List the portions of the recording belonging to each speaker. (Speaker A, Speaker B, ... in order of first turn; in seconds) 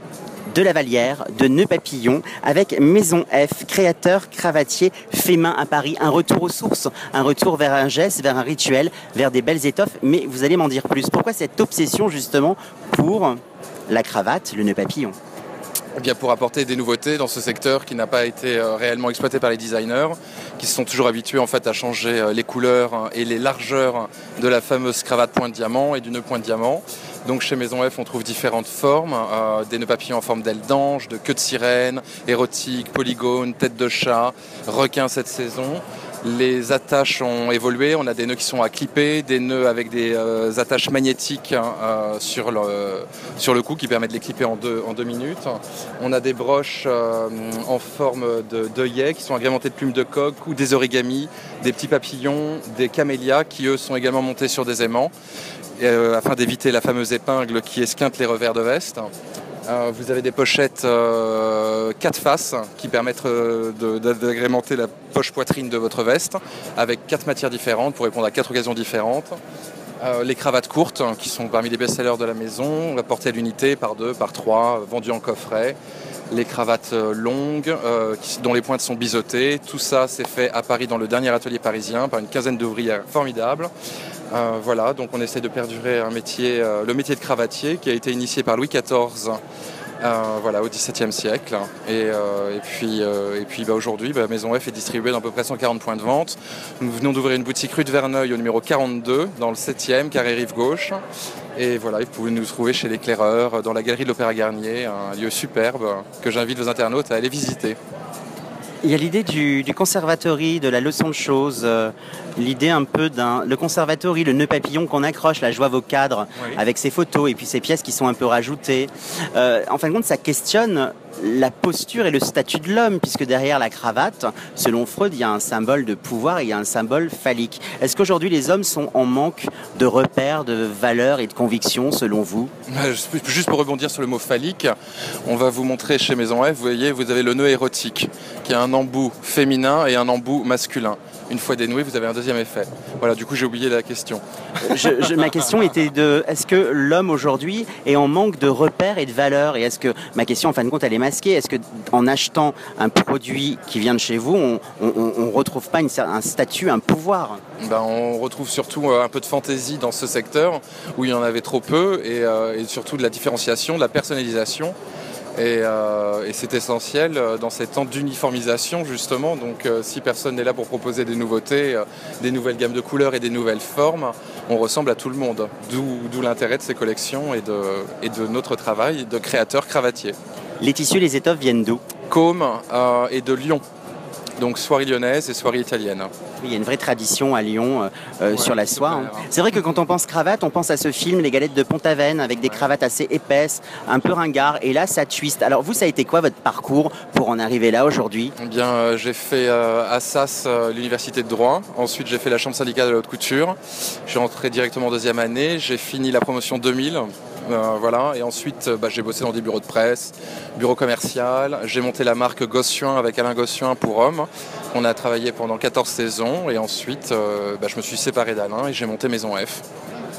Speaker A: 0.5-15.2, 108.8-132.5, 144.6-157.4, 180.6-181.8, 186.4-198.3
Speaker B: 16.0-55.1, 55.8-59.1, 59.6-69.4, 70.0-75.8, 76.3-83.7, 84.3-89.4, 90.0-101.0, 101.5-107.8, 132.7-144.7, 157.6-164.8, 165.3-180.2, 182.1-183.6, 184.4-186.1, 188.3-189.2, 192.4-192.7, 198.4-219.6